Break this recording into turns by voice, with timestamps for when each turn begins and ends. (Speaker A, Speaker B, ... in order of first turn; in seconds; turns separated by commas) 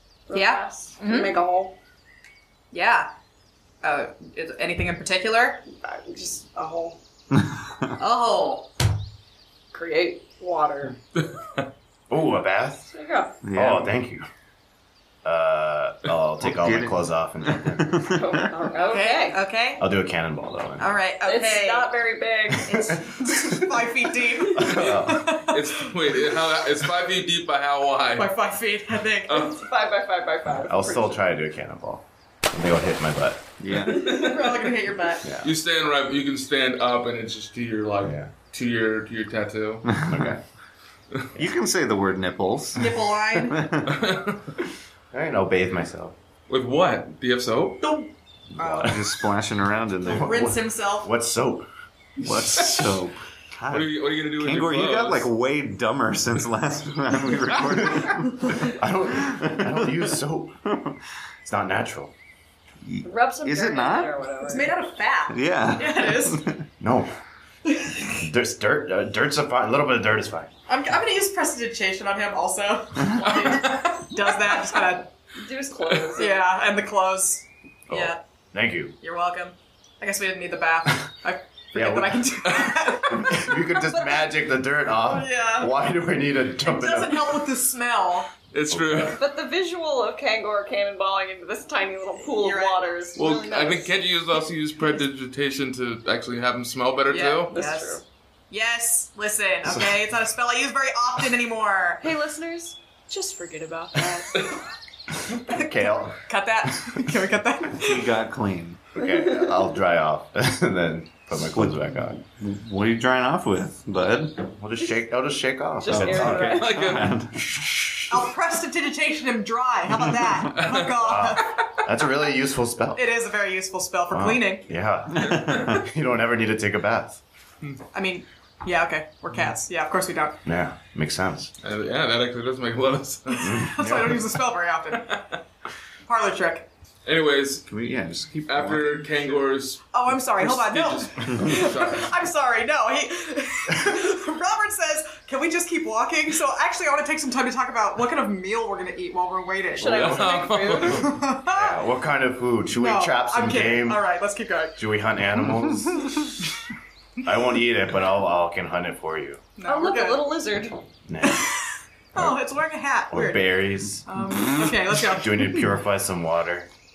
Speaker A: 0.3-1.8, Speaker B: 0.3-1.3, Speaker B: 2.7-3.1, Speaker B: 3.8-5.6, Speaker A: 5.8-7.0, Speaker C: 7.4-7.9, Speaker B: 8.0-8.7, Speaker A: 9.7-11.0, Speaker D: 11.1-11.7, Speaker E: 12.1-12.9, Speaker A: 12.9-13.4, Speaker C: 13.4-13.9, Speaker E: 13.6-14.2, Speaker E: 15.2-18.1, Speaker C: 16.4-18.2, Speaker A: 18.1-19.4, Speaker B: 18.8-19.9, Speaker E: 19.8-20.9, Speaker B: 20.8-21.9, Speaker A: 21.2-22.9, Speaker B: 22.6-25.6, Speaker E: 23.2-23.6, Speaker E: 24.5-25.2, Speaker D: 25.4-28.3, Speaker B: 28.1-29.5, Speaker D: 29.3-29.5, Speaker A: 29.3-31.2, Speaker E: 30.4-33.6, Speaker C: 33.6-34.1, Speaker D: 33.9-34.7, Speaker B: 33.9-35.3, Speaker E: 35.2-35.5, Speaker D: 35.4-39.9, Speaker E: 38.0-38.3, Speaker C: 39.9-40.4, Speaker E: 40.1-40.4, Speaker C: 41.4-43.9, Speaker B: 42.8-43.7, Speaker D: 43.8-44.5, Speaker E: 45.1-46.2, Speaker D: 46.5-48.1, Speaker E: 48.6-49.0, Speaker B: 48.6-49.0, Speaker C: 48.8-50.6, Speaker E: 50.1-51.7, Speaker B: 50.1-51.1, Speaker C: 52.2-58.7, Speaker D: 52.5-52.8, Speaker D: 53.7-55.3, Speaker E: 58.6-60.6, Speaker C: 59.2-59.9, Speaker C: 60.7-61.0, Speaker E: 61.5-62.1, Speaker C: 62.8-64.2, Speaker A: 63.0-64.7, Speaker B: 64.4-66.4, Speaker C: 65.3-66.7, Speaker E: 66.8-67.1, Speaker B: 67.7-68.2, Speaker E: 68.2-70.5, Speaker B: 70.7-75.1, Speaker D: 73.2-74.0, Speaker A: 75.4-76.5, Speaker B: 76.1-78.2, Speaker E: 77.9-79.0, Speaker B: 79.0-83.6, Speaker E: 81.7-82.3, Speaker E: 83.1-87.4, Speaker B: 85.1-85.7, Speaker B: 86.6-88.3, Speaker D: 88.5-89.2, Speaker E: 88.7-89.2, Speaker A: 89.2-93.9, Speaker B: 92.2-92.8, Speaker D: 93.2-97.5, Speaker B: 97.1-102.0, Speaker A: 97.5-98.0, Speaker A: 102.0-104.5, Speaker E: 105.4-106.2, Speaker B: 105.5-108.2, Speaker C: 107.8-108.8, Speaker E: 108.9-112.2, Speaker C: 111.5-114.5, Speaker E: 114.6-116.6, Speaker A: 115.8-117.0, Speaker C: 115.8-117.7, Speaker D: 116.4-117.2, Speaker B: 118.1-121.5, Speaker D: 120.5-120.9, Speaker E: 121.0-123.0, Speaker B: 122.9-124.7, Speaker E: 124.1-127.2, Speaker D: 125.2-125.8, Speaker B: 127.9-130.4, Speaker E: 130.4-131.5, Speaker D: 131.6-133.7, Speaker E: 133.4-134.2, Speaker B: 133.4-135.2, Speaker D: 135.1-135.3, Speaker B: 136.1-136.7, Speaker D: 137.1-137.7, Speaker C: 137.7-139.4, Speaker D: 138.4-142.1, Speaker B: 139.9-151.8, Speaker A: 149.8-151.2, Speaker D: 149.9-151.1, Speaker E: 151.5-154.0, Speaker B: 152.7-154.8, Speaker E: 154.8-156.1, Speaker E: 157.2-159.4, Speaker B: 159.6-160.3, Speaker A: 159.7-160.8, Speaker E: 161.1-161.5, Speaker B: 161.3-161.5, Speaker B: 162.2-165.7, Speaker E: 163.1-164.1, Speaker E: 165.1-166.7